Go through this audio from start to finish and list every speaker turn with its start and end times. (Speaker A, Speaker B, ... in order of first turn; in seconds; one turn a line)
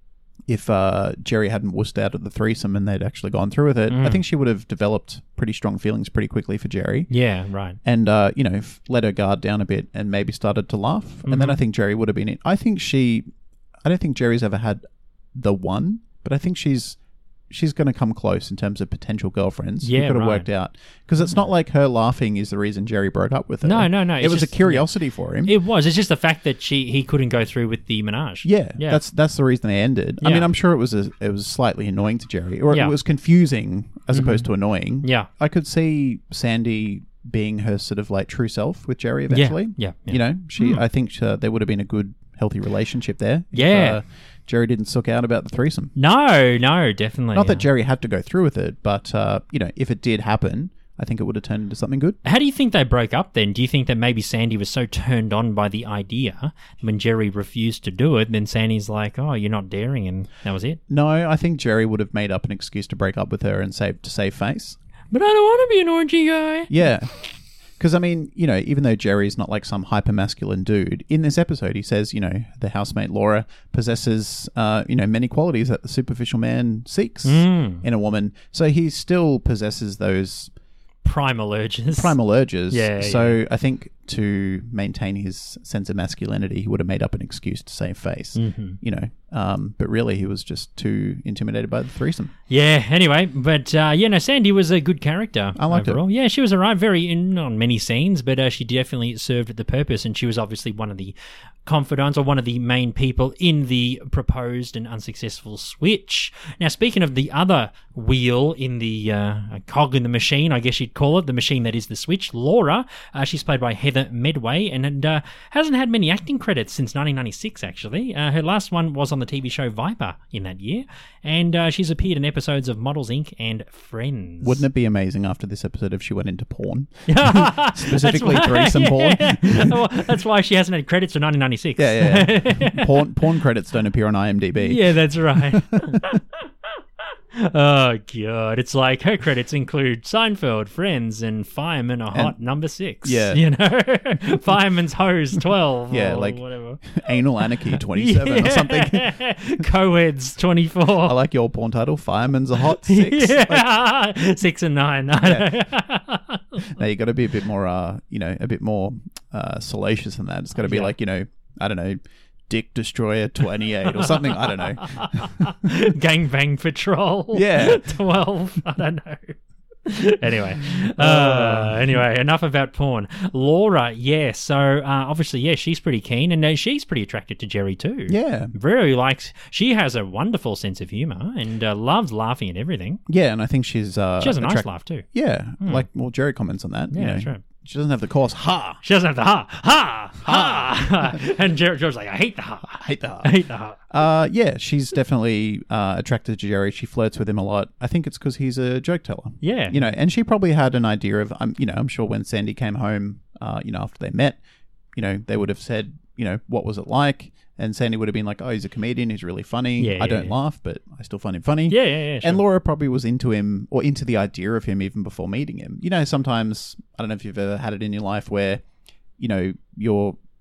Speaker A: 0.5-7.1
Speaker B: 3.9-4.2
Speaker B: 7.1-7.8
Speaker A: 7.8-13.3
Speaker B: 11.3-11.6
Speaker A: 13.8-14.8
Speaker A: 15.3-17.0
Speaker A: 17.5-25.5
Speaker B: 19.8-20.5
Speaker B: 21.2-21.5
Speaker B: 23.6-24.9
Speaker B: 25.4-29.0
Speaker A: 28.4-45.9
Speaker B: 30.2-30.5
Speaker B: 34.1-34.5
Speaker B: 35.0-35.3
Speaker B: 39.3-40.8
Speaker B: 43.5-44.0
Speaker B: 46.0-47.7
Speaker A: 47.3-52.2
Speaker B: 52.2-60.8
Speaker A: 60.9-64.8
Speaker B: 65.1-66.7
Speaker A: 66.7-67.1
Speaker A: 67.8-80.5
Speaker B: 77.2-77.8
Speaker B: 81.0-82.2
Speaker A: 81.9-92.3
Speaker B: 82.7-83.4
Speaker B: 88.4-88.8
Speaker B: 92.5-124.6
Speaker A: 95.6-96.0
Speaker A: 124.4-129.8
Speaker B: 127.1-132.9
Speaker A: 131.8-136.2
Speaker B: 134.6-136.2
Speaker B: 137.3-147.0
Speaker A: 143.0-143.4
Speaker A: 145.9-149.6
Speaker B: 147.7-151.2
Speaker A: 151.0-153.7
Speaker B: 152.8-156.7
Speaker A: 155.2-155.5
Speaker A: 156.7-165.5
Speaker B: 160.6-160.9
Speaker B: 164.0-183.0
Speaker A: 167.3-167.9
Speaker A: 171.0-172.0
Speaker A: 178.1-178.5
Speaker A: 183.1-188.8
Speaker B: 184.2-185.1
Speaker B: 185.6-185.8
Speaker B: 186.9-187.4
Speaker B: 188.8-193.8
Speaker A: 190.2-191.2
Speaker A: 192.7-193.3
Speaker A: 193.9-204.4
Speaker B: 199.4-199.8
Speaker A: 204.9-218.6
Speaker B: 209.8-210.3
Speaker B: 211.7-212.4
Speaker A: 219.2-220.2